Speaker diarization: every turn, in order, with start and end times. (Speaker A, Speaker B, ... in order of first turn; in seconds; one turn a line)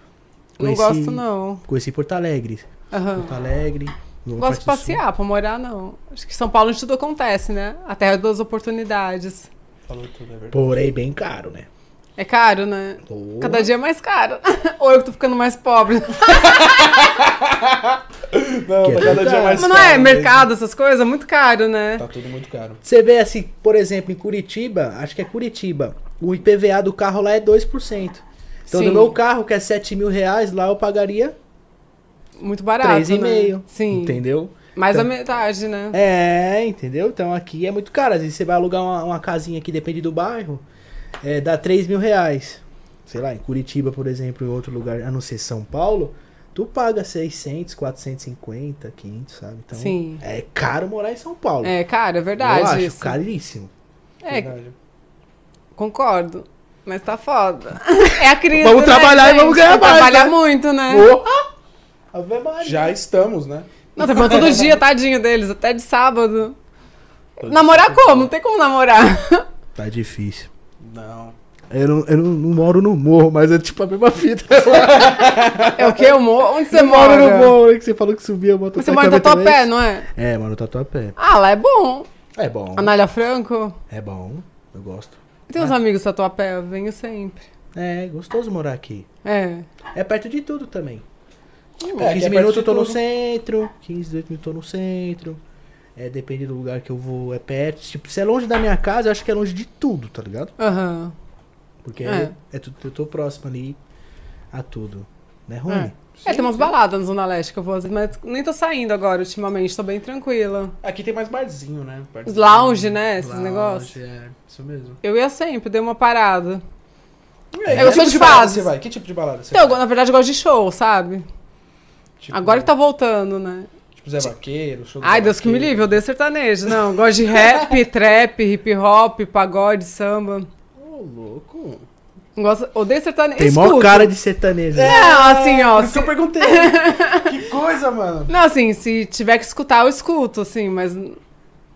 Speaker A: 0.6-1.6
Speaker B: 0.6-5.0
Speaker A: 2.9-3.3
Speaker A: 4.4-9.5
Speaker C: 9.9-10.9
Speaker B: 10.5-11.7
Speaker A: 12.2-16.8
Speaker B: 13.0-13.7
Speaker C: 16.2-20.5
Speaker B: 18.8-19.7
Speaker A: 19.6-22.0
Speaker C: 22.0-22.8
Speaker B: 22.8-31.3
Speaker A: 28.7-29.1
Speaker A: 32.4-34.2
Speaker B: 32.8-35.1
Speaker A: 34.7-36.0
Speaker B: 35.9-40.6
Speaker B: 41.2-51.7
Speaker A: 49.7-50.2
Speaker A: 51.6-53.2
Speaker B: 52.4-53.7
Speaker A: 54.2-54.5
Speaker C: 54.3-54.7
Speaker A: 55.8-61.1
Speaker B: 58.5-61.5
Speaker B: 62.1-63.0
Speaker C: 62.6-64.8
Speaker A: 64.0-66.5
Speaker C: 67.4-68.3
Speaker A: 67.4-69.5
Speaker B: 69.8-70.5
Speaker C: 70.8-71.3
Speaker B: 71.7-76.1
Speaker C: 74.7-75.8
Speaker A: 75.7-77.6
Speaker B: 76.7-81.2
Speaker A: 78.8-80.1
Speaker A: 81.2-82.1
Speaker B: 82.3-82.9
Speaker A: 82.7-83.8
Speaker B: 83.9-85.7
Speaker A: 85.5-87.5
Speaker B: 87.7-89.1
Speaker A: 89.2-89.7
Speaker B: 89.9-91.0
Speaker C: 92.0-93.0
Speaker B: 92.0-95.4
Speaker B: 96.0-100.5
Speaker A: 100.6-101.1
Speaker B: 101.8-103.8
Speaker A: 102.0-102.3
Speaker B: 104.5-106.0
Speaker A: 105.7-110.7
Speaker C: 106.1-106.7
Speaker C: 110.8-115.0
Speaker A: 112.2-113.9
Speaker A: 115.0-116.6
Speaker C: 117.5-119.8
Speaker B: 117.6-118.3
Speaker A: 117.7-118.7
Speaker A: 119.5-121.2
Speaker C: 122.2-122.7
Speaker A: 122.3-123.7
Speaker C: 124.0-126.0
Speaker A: 125.0-130.5
Speaker C: 127.3-127.7
Speaker C: 130.8-131.8
Speaker A: 132.3-134.1
Speaker B: 133.4-135.0
Speaker C: 134.7-138.3
Speaker A: 134.8-137.3
Speaker A: 138.3-141.2